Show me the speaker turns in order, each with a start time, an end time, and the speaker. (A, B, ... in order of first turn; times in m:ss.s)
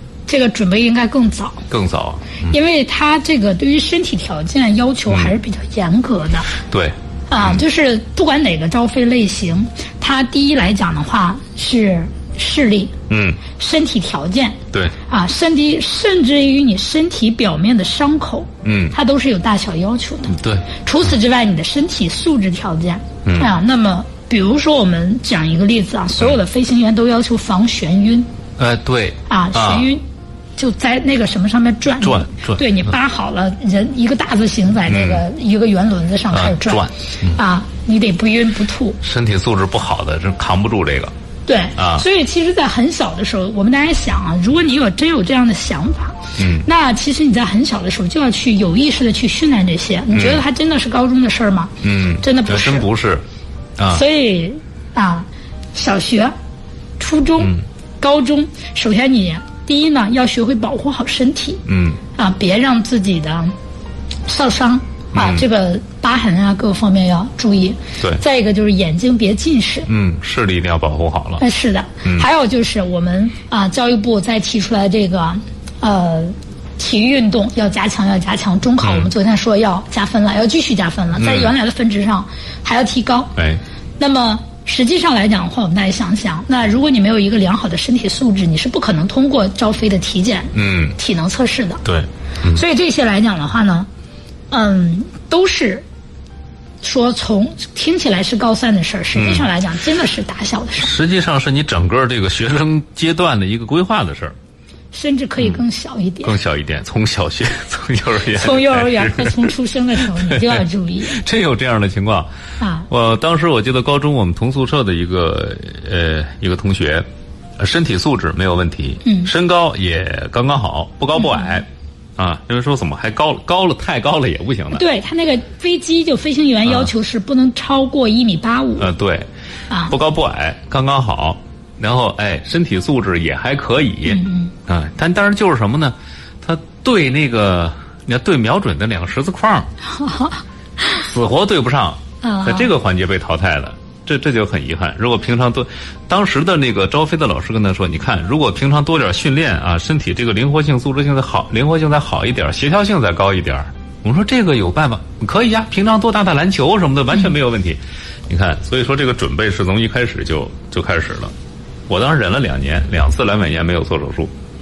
0:00.3-0:01.6 A
0:01.7-0:02.5 B
0:02.5-0:06.5 A
0:06.7-0:07.6 B
0:07.3-0:12.9 A
0:13.1-0:13.4 B
0:13.5-0:28.3 A
0:18.6-0:19.0 B
0:20.3-0:20.7 B
0:23.2-0:23.5 B
0:28.6-0:29.9 B
0:29.3-0:30.0 A
0:30.6-0:39.0 A
0:32.0-0:32.7 B
0:34.9-0:35.2 B
0:36.3-0:37.4 B
0:39.0-0:41.1 B
0:41.5-0:52.9 A
0:41.8-0:42.0 B
0:46.4-0:46.7 B
0:50.1-0:50.4 B
0:51.8-0:53.2 B
0:53.8-0:54.0 B
0:53.9-0:56.3 A
0:57.0-1:01.6 A
1:01.7-1:02.0 B
1:02.2-1:03.5 A
1:04.3-1:09.9 A
1:05.1-1:05.4 B
1:09.9-1:11.4 B
1:11.4-1:23.4 A
1:18.8-1:19.1 B
1:21.2-1:21.5 B
1:23.4-1:23.6 B
1:24.0-1:31.8 A
1:30.5-1:31.0 B
1:31.8-1:32.6 B
1:32.5-1:33.9 A
1:34.5-1:35.8 A
1:36.8-1:40.9 A
1:39.2-1:39.5 B
1:40.8-1:44.3 B
1:44.9-1:46.4 A
1:46.2-1:52.3 B
1:48.2-1:51.2 A
1:52.6-1:52.9 A
1:52.9-1:57.1 B
1:57.6-2:04.8 B
1:59.0-1:59.3 A
2:01.2-2:01.5 A
2:04.7-2:08.9 A
2:08.8-2:09.3 B
2:09.8-2:19.7 B
2:14.1-2:14.5 A
2:19.8-2:21.1 A
2:20.9-2:41.3 B
2:22.2-2:22.7 A
2:41.9-2:44.3 B